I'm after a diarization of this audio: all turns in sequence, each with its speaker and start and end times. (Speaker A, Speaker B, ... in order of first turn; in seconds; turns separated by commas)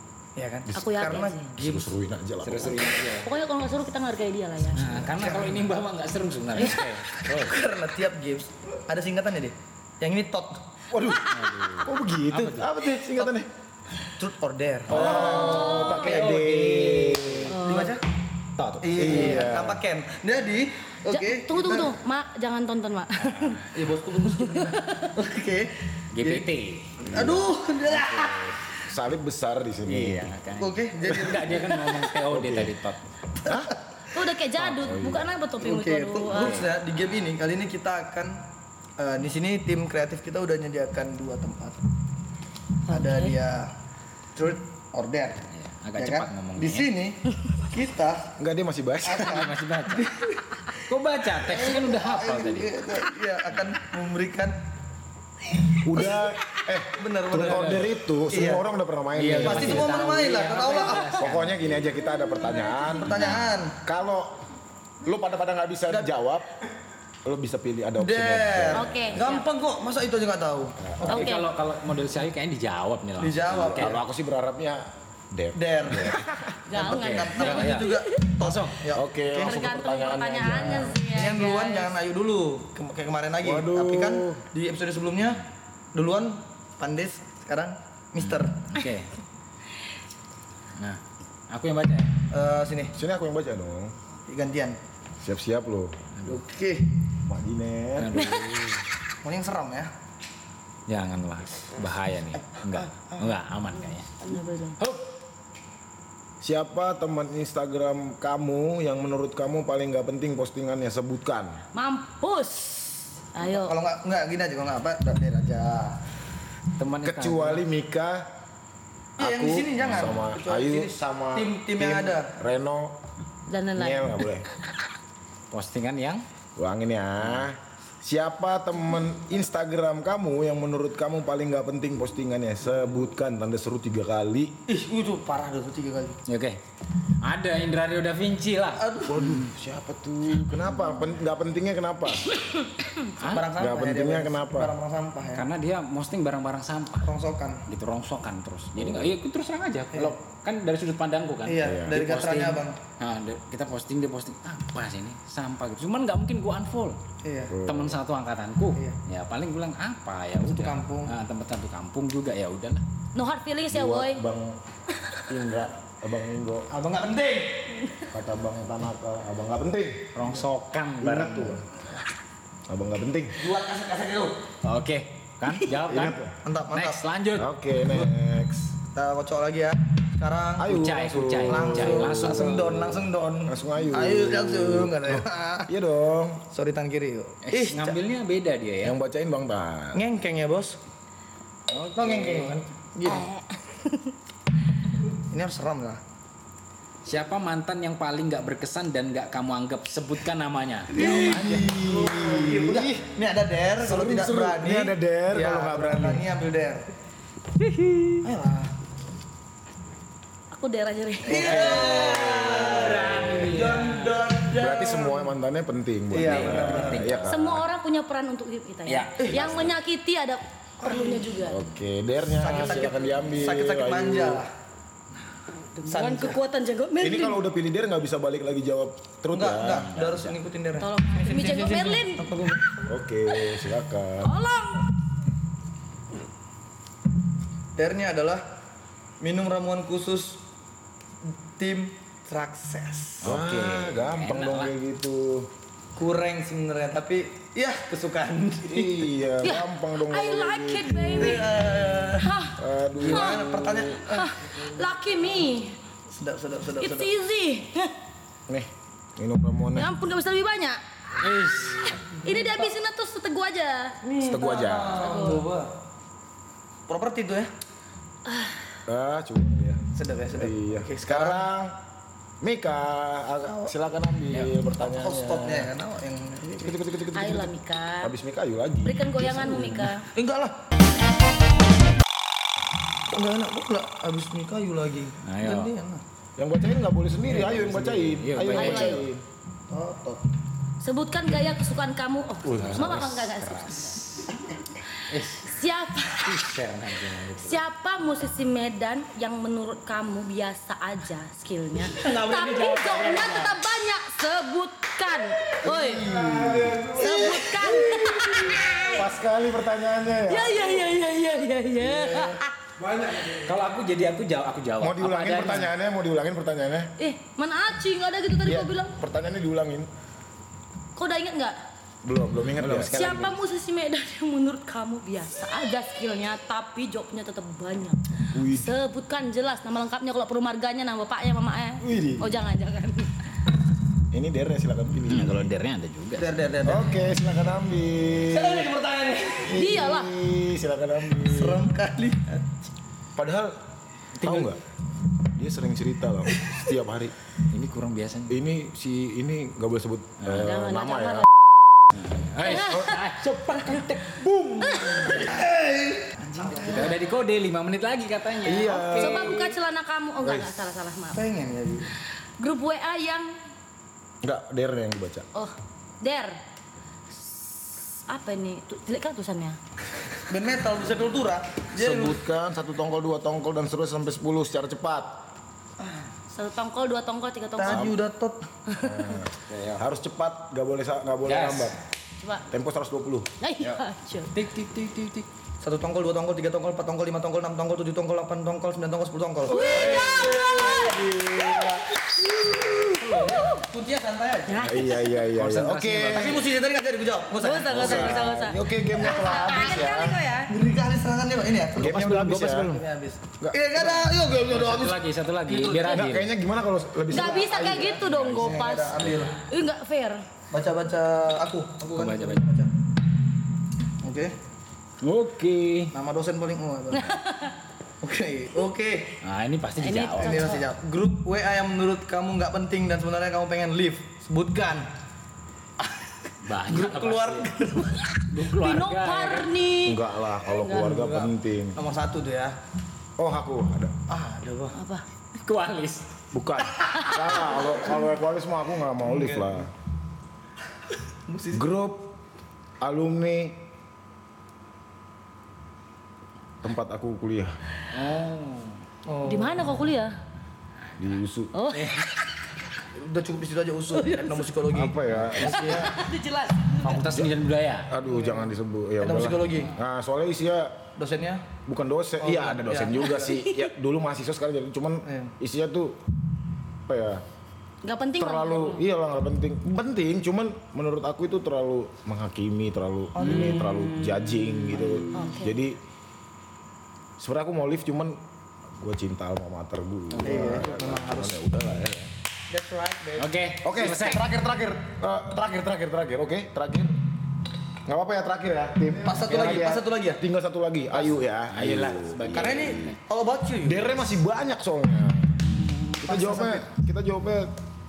Speaker A: 0.4-1.9, Speaker B: 0.7-2.9, Speaker C: 0.7-1.5, Speaker D: 2.4-3.3, Speaker C: 3.2-5.0, Speaker D: 4.7-7.6, Speaker A: 4.8-5.7, Speaker A: 6.5-10.6, Speaker B: 10.9-13.5, Speaker D: 11.3-12.7, Speaker A: 13.0-13.4, Speaker A: 14.2-16.0, Speaker B: 14.9-17.6, Speaker D: 14.9-17.6, Speaker C: 15.0-16.2, Speaker C: 17.5-18.0, Speaker A: 17.5-18.0, Speaker B: 18.6-19.8, Speaker A: 18.8-22.0, Speaker C: 19.1-19.5, Speaker C: 21.1-23.7, Speaker D: 23.2-23.6, Speaker A: 23.7-26.5, Speaker C: 24.4-25.1, Speaker D: 26.1-27.1, Speaker A: 27.0-28.7, Speaker B: 27.1-27.5, Speaker D: 27.9-28.5, Speaker B: 28.9-30.4, Speaker D: 29.9-33.0, Speaker A: 30.6-32.0, Speaker B: 32.3-32.8, Speaker B: 33.5-33.8, Speaker C: 34.1-36.6, Speaker B: 34.5-35.3, Speaker A: 35.6-38.4, Speaker D: 36.3-37.2, Speaker A: 39.0-41.8, Speaker C: 42.9-43.4, Speaker A: 42.9-43.8, Speaker A: 44.3-45.4, Speaker D: 45.5-46.9, Speaker A: 46.0-48.3, Speaker B: 48.4-49.4, Speaker A: 49.0-50.8, Speaker D: 49.2-50.1, Speaker D: 50.9-52.8, Speaker A: 51.3-54.6, Speaker A: 55.7-56.2, Speaker B: 55.8-60.0, Speaker A: 56.9-58.6, Speaker D: 57.3-57.9, Speaker D: 59.1-62.0, Speaker A: 59.4-61.2, Speaker B: 61.2-64.4, Speaker A: 62.9-63.8, Speaker D: 63.1-63.5, Speaker B: 65.0-66.5, Speaker B: 67.2-69.0, Speaker A: 68.0-71.3, Speaker C: 68.7-69.5, Speaker B: 70.8-71.2, Speaker D: 71.0-74.0, Speaker C: 71.1-71.5, Speaker A: 73.2-74.0, Speaker B: 73.6-76.5, Speaker A: 75.5-76.2, Speaker C: 76.7-78.3, Speaker A: 76.7-79.6, Speaker D: 76.8-78.8, Speaker B: 78.9-81.0, Speaker C: 79.4-81.9, Speaker A: 81.0-88.6, Speaker B: 83.4-84.4, Speaker D: 88.2-89.1, Speaker D: 90.8-92.1, Speaker A: 92.3-93.0, Speaker B: 92.9-94.0, Speaker A: 94.3-94.8, Speaker B: 95.2-96.0, Speaker A: 96.3-97.0, Speaker B: 97.2-98.1, Speaker D: 98.0-98.8, Speaker C: 98.1-98.6, Speaker A: 99.2-99.9, Speaker D: 100.9-104.1, Speaker A: 102.5-103.4, Speaker C: 104.2-104.8, Speaker D: 104.8-105.0, Speaker B: 106.4-111.6, Speaker C: 111.7-113.8, Speaker A: 113.4-116.0, Speaker D: 116.8-117.6, Speaker B: 117.0-118.3, Speaker B: 119.2-123.0, Speaker A: 119.2-122.3, Speaker C: 123.5-124.3, Speaker B: 123.8-124.5, Speaker D: 125.5-126.2, Speaker B: 126.6-134.6, Speaker A: 134.7-136.2, Speaker D: 136.3-136.6, Speaker D: 137.2-139.3, Speaker A: 138.8-139.4, Speaker B: 139.1-142.3, Speaker D: 143.2-143.5, Speaker A: 143.2-145.5, Speaker B: 143.6-144.8, Speaker D: 145.3-147.1, Speaker A: 147.0-147.6, Speaker D: 147.7-157.0, Speaker B: 148.8-149.2, Speaker A: 151.4-152.8, Speaker B: 151.6-152.0, Speaker A: 157.2-157.6, Speaker B: 157.5-158.0, Speaker D: 157.6-162.8, Speaker A: 160.4-161.1, Speaker C: 163.1-164.2, Speaker B: 163.7-164.6, Speaker B: 165.3-166.7, Speaker A: 166.7-167.9, Speaker B: 168.1-170.1, Speaker D: 170.1-171.6, Speaker B: 171.0-171.6, Speaker B: 172.7-173.4, Speaker A: 173.4-174.4, Speaker D: 174.6-176.2, Speaker B: 175.9-176.3, Speaker A: 176.4-177.0, Speaker D: 176.7-177.5, Speaker B: 177.4-178.8, Speaker A: 177.8-178.1, Speaker A: 178.9-180.8, Speaker B: 180.6-186.4, Speaker D: 180.7-182.7, Speaker A: 181.5-185.7, Speaker A: 186.5-188.0, Speaker D: 187.5-189.0, Speaker B: 188.8-190.0, Speaker A: 189.9-190.8, Speaker D: 191.7-192.6, Speaker A: 192.0-193.3, Speaker C: 193.1-194.1, Speaker A: 195.3-196.0, Speaker D: 197.1-201.7, Speaker A: 200.9-206.9, Speaker B: 201.4-203.0, Speaker B: 203.8-206.2, Speaker A: 208.2-208.7, Speaker C: 210.5-211.7, Speaker A: 211.3-215.3, Speaker D: 211.3-214.2, Speaker B: 211.5-213.1, Speaker B: 214.5-217.6, Speaker A: 216.1-217.2, Speaker D: 216.1-217.3, Speaker C: 217.3-221.6, Speaker D: 218.9-219.6, Speaker A: 219.2-219.6, Speaker B: 219.4-219.7, Speaker A: 220.8-221.3, Speaker B: 221.4-224.4, Speaker A: 222.2-224.5, Speaker C: 225.8-227.4, Speaker A: 225.9-226.4, Speaker B: 227.0-229.9, Speaker A: 229.3-232.8, Speaker D: 229.7-230.4, Speaker C: 230.8-232.3, Speaker B: 232.9-234.3, Speaker C: 234.2-234.9, Speaker A: 237.8-238.4, Speaker A: 239.2-240.4, Speaker A: 241.2-243.4, Speaker D: 243.2-244.7, Speaker B: 243.2-245.5, Speaker A: 246.0-249.1, Speaker B: 248.7-251.6, Speaker C: 249.4-255.8, Speaker A: 251.2-252.3, Speaker B: 252.6-254.0, Speaker A: 253.0-254.6, Speaker A: 256.1-257.1, Speaker C: 256.8-257.9, Speaker B: 258.5-259.9, Speaker C: 259.8-260.8, Speaker D: 261.2-262.0, Speaker A: 262.0-262.7, Speaker C: 262.2-264.0, Speaker A: 264.0-265.8, Speaker B: 264.2-265.2, Speaker C: 264.9-265.4, Speaker A: 266.9-267.5, Speaker C: 268.3-268.8, Speaker B: 268.9-271.8, Speaker A: 269.9-271.4, Speaker B: 272.4-275.7, Speaker A: 273.4-273.7, Speaker A: 274.7-276.8, Speaker B: 276.6-279.9, Speaker C: 277.1-278.1, Speaker C: 278.8-280.1, Speaker A: 280.1-280.6, Speaker A: 283.1-286.0, Speaker D: 285.2-285.7, Speaker B: 286.4-289.2, Speaker D: 287.3-289.1, Speaker C: 288.6-289.1, Speaker A: 289.7-290.3, Speaker C: 290.8-294.2, Speaker B: 292.4-293.2, Speaker D: 292.6-294.3, Speaker D: 295.1-295.5, Speaker C: 295.4-296.5, Speaker D: 296.2-297.6, Speaker C: 297.4-306.1, Speaker D: 301.9-303.6, Speaker B: 305.6-310.9, Speaker C: 306.9-309.1, Speaker A: 306.9-307.4, Speaker C: 310.3-312.4, Speaker B: 311.8-313.5, Speaker D: 313.3-315.7, Speaker B: 314.8-316.9, Speaker C: 317.0-319.0, Speaker B: 318.4-319.9, Speaker C: 320.9-321.6, Speaker B: 322.0-323.3, Speaker A: 322.6-323.0, Speaker C: 322.9-333.2, Speaker B: 328.3-328.8, Speaker B: 331.8-332.4, Speaker B: 334.1-335.5, Speaker D: 335.1-336.4, Speaker A: 336.2-337.1, Speaker B: 336.6-338.8, Speaker A: 338.2-339.6, Speaker B: 339.4-341.7, Speaker C: 339.5-340.1, Speaker A: 341.1-342.5, Speaker B: 343.1-343.6, Speaker D: 344.2-344.6, Speaker B: 344.2-344.6, Speaker B: 345.2-347.1, Speaker D: 347.5-348.4, Speaker B: 348.3-351.3, Speaker D: 350.2-350.5, Speaker C: 350.4-351.3, Speaker D: 351.9-355.2, Speaker C: 352.4-353.0, Speaker C: 354.6-355.3, Speaker A: 355.1-357.0, Speaker D: 356.6-359.5, Speaker B: 358.4-359.5, Speaker C: 358.8-361.2, Speaker B: 360.2-360.7, Speaker A: 361.1-361.9, Speaker C: 362.4-363.3, Speaker B: 364.2-365.3, Speaker C: 365.3-366.4, Speaker C: 367.1-369.6, Speaker A: 370.3-372.2, Speaker B: 371.7-375.2, Speaker C: 376.3-377.9, Speaker A: 377.6-378.5, Speaker B: 377.6-378.0, Speaker C: 378.7-379.2, Speaker B: 378.8-381.8, Speaker D: 379.5-379.8, Speaker D: 381.2-381.8, Speaker C: 382.2-382.5, Speaker B: 382.5-383.4, Speaker C: 383.4-384.3, Speaker D: 384.3-385.3, Speaker A: 385.6-391.8, Speaker C: 389.5-391.0, Speaker B: 389.5-393.0, Speaker A: 392.8-395.0, Speaker C: 393.2-393.6, Speaker C: 394.5-395.2, Speaker B: 394.6-396.5, Speaker D: 395.4-396.5, Speaker A: 396.1-398.4, Speaker C: 397.4-400.5, Speaker B: 397.7-400.2, Speaker A: 399.1-399.5, Speaker A: 400.5-404.5, Speaker B: 401.7-402.8, Speaker B: 403.4-405.0, Speaker D: 404.4-406.3, Speaker A: 405.5-406.1, Speaker B: 405.9-408.5, Speaker C: 407.1-410.2, Speaker A: 407.1-409.4, Speaker D: 408.1-409.4, Speaker A: 410.5-412.7, Speaker D: 411.8-412.4, Speaker A: 414.0-414.4, Speaker D: 415.0-415.9, Speaker A: 415.9-417.2, Speaker C: 416.9-417.6, Speaker A: 418.0-419.2, Speaker D: 419.2-420.5, Speaker C: 419.8-420.7, Speaker A: 420.1-424.9, Speaker A: 425.8-428.1, Speaker D: 426.4-427.5, Speaker D: 428.3-429.5, Speaker C: 428.5-430.0, Speaker B: 429.8-431.8, Speaker A: 430.5-432.6, Speaker B: 433.2-433.9, Speaker A: 434.1-434.8, Speaker C: 434.7-435.0, Speaker D: 435.4-436.2, Speaker B: 436.3-439.7, Speaker C: 436.9-437.8, Speaker A: 439.0-439.7, Speaker A: 441.3-441.6, Speaker B: 441.5-442.1, Speaker B: 442.8-443.6, Speaker B: 446.6-447.6, Speaker D: 447.9-448.8, Speaker A: 449.1-449.8, Speaker C: 449.2-450.1, Speaker B: 451.0-451.5, Speaker C: 451.5-452.1, Speaker D: 451.7-452.0, Speaker A: 452.9-456.1, Speaker C: 453.9-454.5, Speaker B: 454.7-455.9, Speaker C: 455.4-457.1, Speaker D: 456.8-457.9, Speaker B: 457.9-460.8, Speaker A: 458.0-459.7, Speaker A: 461.0-461.4, Speaker B: 461.6-466.0, Speaker A: 462.2-463.3, Speaker C: 463.1-463.7, Speaker A: 465.0-465.3, Speaker B: 466.9-467.2, Speaker C: 467.8-468.9, Speaker B: 468.2-475.8, Speaker A: 473.1-473.7, Speaker C: 475.1-475.6, Speaker B: 477.2-478.2, Speaker B: 478.7-482.1, Speaker A: 480.2-481.4, Speaker A: 482.5-483.3, Speaker D: 483.2-484.3, Speaker B: 483.6-486.9, Speaker B: 487.9-492.9, Speaker A: 489.0-490.2, Speaker D: 489.2-489.7, Speaker D: 490.9-493.0, Speaker A: 492.2-494.1, Speaker B: 493.6-497.5, Speaker A: 495.8-496.7